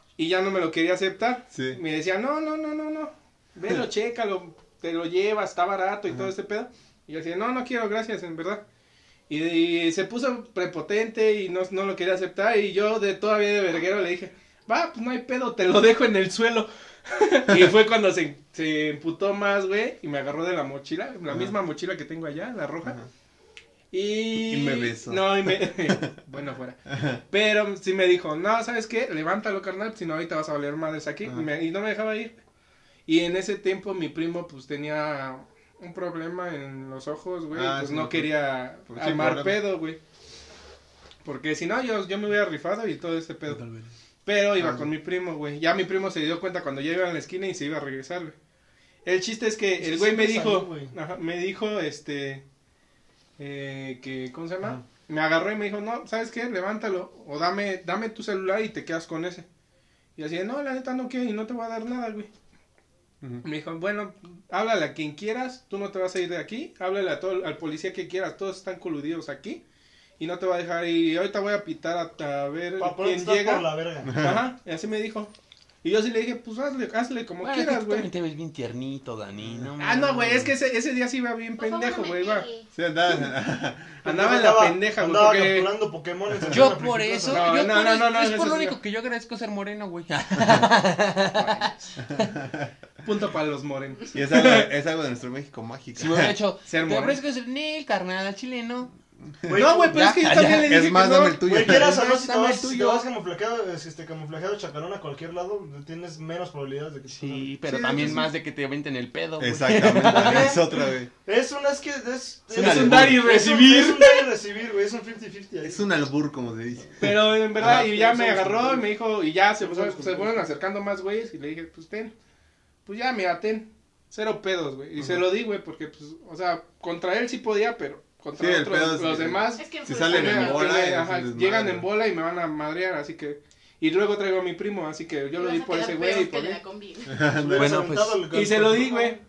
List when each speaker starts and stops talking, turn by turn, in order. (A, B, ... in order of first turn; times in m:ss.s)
0:00.2-0:08.6 A
0:01.5-0:01.8 B
0:09.3-0:23.0 A
0:21.3-0:21.5 B
0:22.8-0:23.1 B
0:23.9-0:32.4 A
0:24.3-0:26.1 B
0:26.9-0:27.2 B
0:33.1-0:40.0 A
0:37.5-0:38.3 B
0:38.9-0:39.6 B
0:41.2-0:43.6 A
0:44.3-0:48.3 A
0:44.6-0:44.9 B
0:49.0-0:52.4 A
0:49.8-0:50.9 C
0:53.4-0:59.5 A
1:00.2-1:02.3 A
1:03.4-1:09.6 A
1:10.2-1:15.3 A
1:12.8-1:14.4 C
1:14.0-1:14.4 B
1:15.8-1:18.1 A
1:17.4-1:20.5 D
1:19.4-1:19.7 B
1:19.8-1:22.5 A
1:21.6-1:22.7 E
1:22.8-1:24.0 B
1:24.0-1:27.5 C
1:24.0-1:25.7 A
1:26.3-1:26.6 B
1:26.5-1:32.3 D
1:27.3-1:28.8 A
1:31.3-1:31.9 A
1:32.2-1:32.7 B
1:33.0-1:34.7 A
1:34.1-1:36.4 B
1:36.0-1:38.9 D
1:36.7-1:37.2 A
1:39.5-1:40.0 C
1:39.5-1:41.4 A
1:39.8-1:40.8 D
1:40.6-1:42.0 B
1:41.4-1:48.2 C
1:41.6-1:43.1 D
1:47.1-1:50.6 D
1:47.7-1:48.3 B
1:49.4-1:51.1 B
1:49.9-1:50.7 C
1:51.2-1:55.8 C
1:52.5-1:54.3 A
1:52.5-1:53.2 D
1:55.6-1:57.9 B
1:57.0-2:02.1 A
1:57.6-1:58.9 C
1:59.6-2:00.4 C
2:02.9-2:16.6 A
2:05.0-2:05.2 B
2:08.4-2:11.9 B
2:09.6-2:10.8 E
2:15.4-2:17.2 E
2:17.1-2:17.9 B
2:17.3-2:19.1 C
2:17.6-2:18.2 D
2:18.3-2:19.2 A